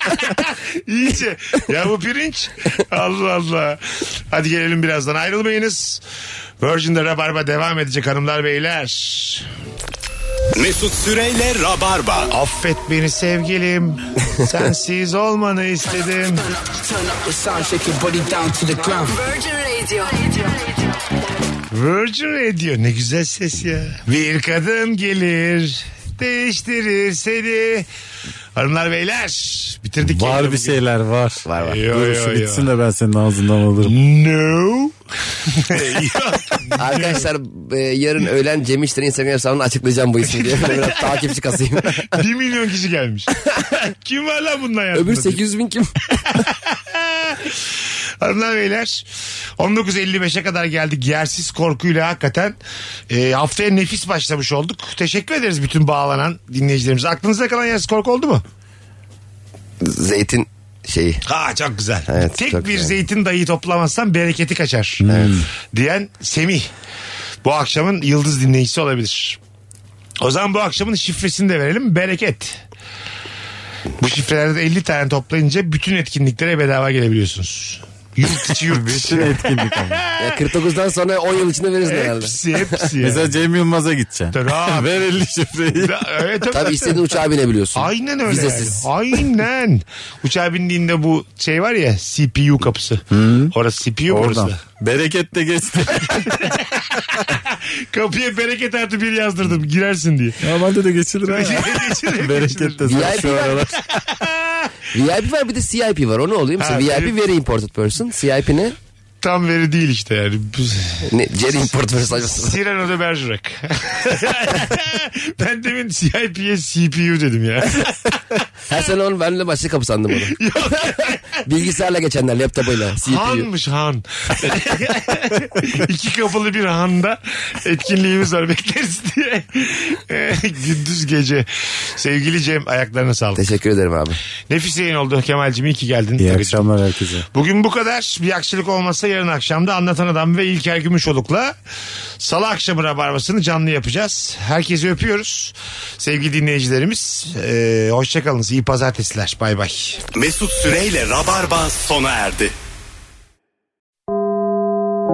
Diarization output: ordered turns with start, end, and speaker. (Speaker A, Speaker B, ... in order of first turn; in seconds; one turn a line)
Speaker A: 0.1-6.0
Speaker A: 6.6-9.5
Speaker B: 10.6-12.3
Speaker A: 12.3-16.4
Speaker C: 16.6-21.0
Speaker A: 21.7-27.9
Speaker A: 28.6-30.8
Speaker D: 30.1-34.0
Speaker E: 31.4-31.8
Speaker A: 31.6-32.7
Speaker A: 33.8-37.3
Speaker E: 36.8-42.1
Speaker A: 40.2-41.2
Speaker A: 42.0-45.4
Speaker E: 45.0-45.9
Speaker A: 46.3-47.6
Speaker A: 48.2-49.1
Speaker A: 49.6-52.6
Speaker A: 53.1-58.4
Speaker E: 59.8-61.2
Speaker A: 61.2-65.1
Speaker E: 62.1-62.9
Speaker D: 65.0-65.5
Speaker E: 65.1-65.3
Speaker A: 65.7-66.7
Speaker A: 67.4-69.4
Speaker A: 70.2-72.6
Speaker A: 74.0-80.2
Speaker D: 78.3-80.0
Speaker E: 80.2-82.8
Speaker A: 81.8-83.3
Speaker D: 83.0-86.0
Speaker A: 84.3-85.1
Speaker A: 85.8-87.0
Speaker E: 86.5-88.9
Speaker A: 87.8-94.6
Speaker D: 93.1-93.5
Speaker D: 94.1-96.6
Speaker A: 96.3-100.4
Speaker D: 100.4-103.8
Speaker A: 101.3-102.9
Speaker E: 102.8-103.6
Speaker A: 104.0-104.6
Speaker E: 104.9-108.8
Speaker A: 106.6-107.1
Speaker A: 109.2-118.2
Speaker E: 111.1-112.5
Speaker E: 118.7-120.4
Speaker A: 120.3-121.5
Speaker E: 121.4-123.5
Speaker A: 123.0-133.4
Speaker E: 133.4-134.2
Speaker A: 134.5-136.7
Speaker D: 136.2-137.3
Speaker A: 137.3-141.6
Speaker A: 142.2-150.0
Speaker B: 150.1-152.5